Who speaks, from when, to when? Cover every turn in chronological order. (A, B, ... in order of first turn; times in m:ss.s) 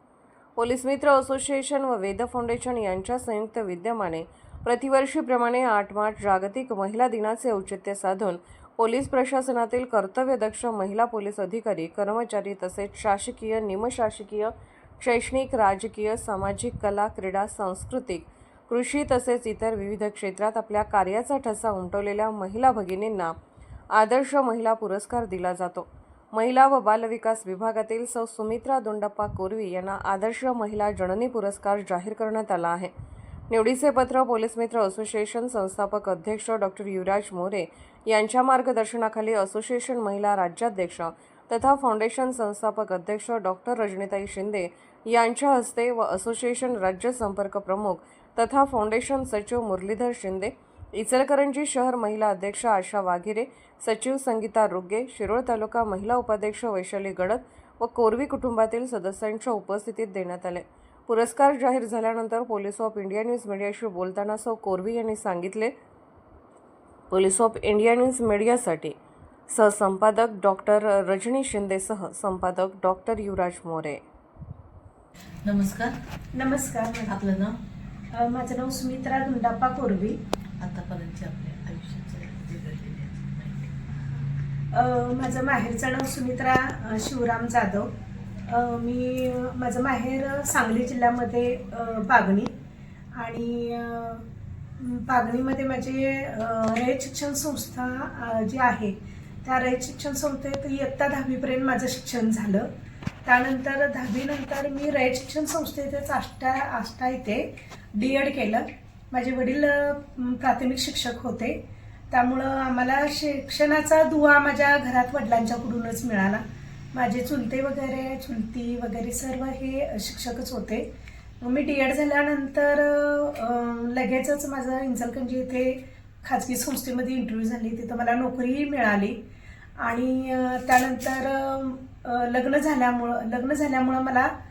0:00.6-0:23.3 A
0:24.0-0:32.9 A
0:33.5-1:05.7 A
1:07.1-1:09.0 A
1:09.5-1:14.0 A
1:15.4-1:15.9 B
1:16.3-1:17.2 C
1:17.1-1:17.6 B
1:18.1-1:20.2 C
1:20.6-1:23.7 B
1:24.7-1:27.9 C
1:28.4-1:32.5 C
1:33.2-1:34.2 C
1:34.8-1:42.7 C
1:43.2-1:51.6 C
1:52.1-1:56.4 C
1:56.9-2:00.8 C
2:01.4-2:09.2 C
2:09.8-2:14.3 C